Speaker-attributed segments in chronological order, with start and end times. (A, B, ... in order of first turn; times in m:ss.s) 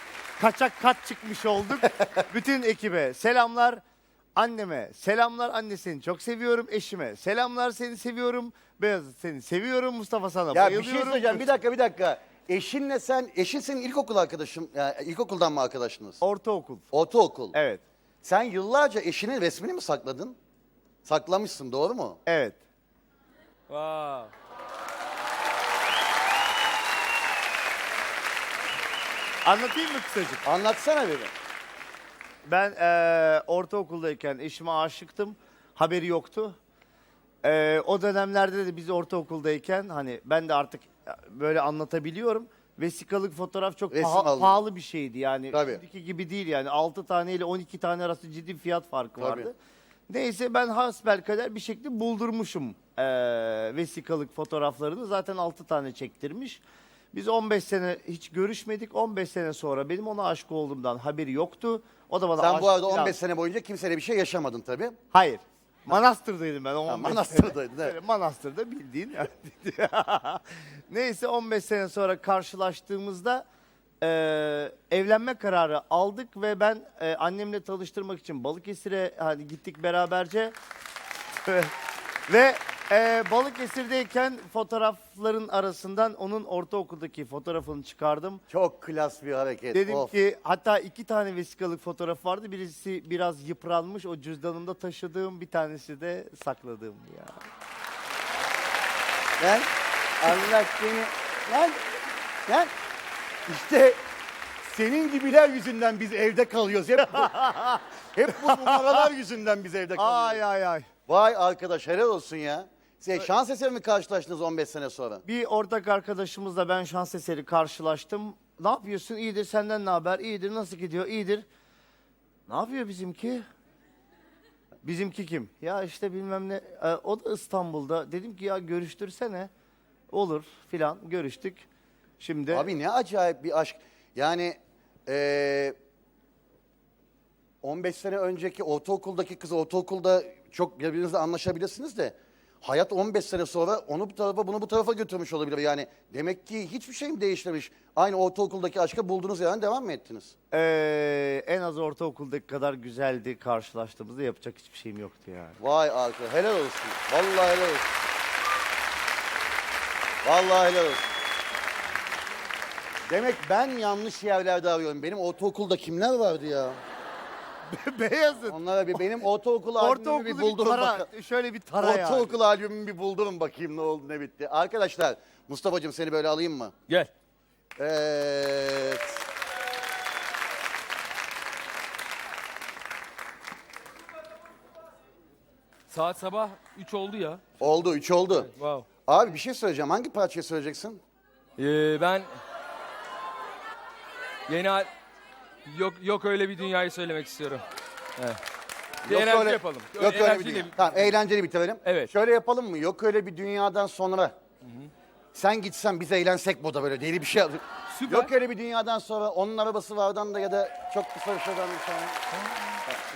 0:00.4-0:03.8 A
0:04.4-0:11.5 A
0:10.5-0:16.2 B
0:16.2-0:16.9 A
0:16.9-0:17.6 B
0:17.5-0:17.8 A
0:18.2-0:20.4 B
0:21.0-0:22.2 B
0:22.3-0:22.6 A
0:23.7-0:24.3 C
0:29.4-0:30.4 A
0:30.4-0:31.3 B
0:32.4-0:36.6 A
0:37.4-0:49.6 A
0:43.9-0:44.6 B
0:45.5-0:45.8 B
0:49.2-0:49.5 B
0:50.1-0:56.6 A
0:57.1-1:03.2 A
1:02.4-1:05.0 B
1:05.1-1:13.4 A
1:06.9-1:08.0 B
1:14.0-1:20.5 A
1:21.4-1:21.7 A
1:22.3-1:28.4 A
1:28.5-1:30.1 B
1:29.7-1:37.4 A
1:39.4-1:39.7 B
1:40.2-1:41.8 B
1:42.5-1:42.7 B
1:43.5-1:44.0 B
1:44.6-1:47.4 B
1:47.1-1:49.1 A
1:48.1-1:50.4 B
1:50.0-1:50.9 A
1:51.1-1:55.2 B
1:55.2-2:01.5 A
2:02.5-2:03.4 A
2:04.8-2:09.5 A
2:10.1-2:11.7 A
2:12.2-2:12.7 A
2:12.5-2:15.8 B
2:17.6-2:30.3 B
2:30.5-2:35.6 A
2:35.6-2:37.9 B
2:40.2-2:41.1 B
2:43.1-2:46.8 B
2:47.7-2:49.1 A
2:48.4-2:51.1 B
2:49.8-2:52.4 A
2:51.8-2:56.7 B
2:57.8-2:59.2 B
3:05.9-3:07.5 C
3:07.6-3:08.5 B
3:08.3-3:08.9 C
3:09.1-3:11.0 B
3:11.6-3:12.4 C
3:14.5-3:14.9 C
3:15.7-3:17.6 C
3:19.0-3:20.8 C
3:19.0-3:24.4 B
3:21.8-3:22.1 C
3:24.6-3:24.9 C
3:25.3-3:32.2 B
3:27.9-3:28.3 C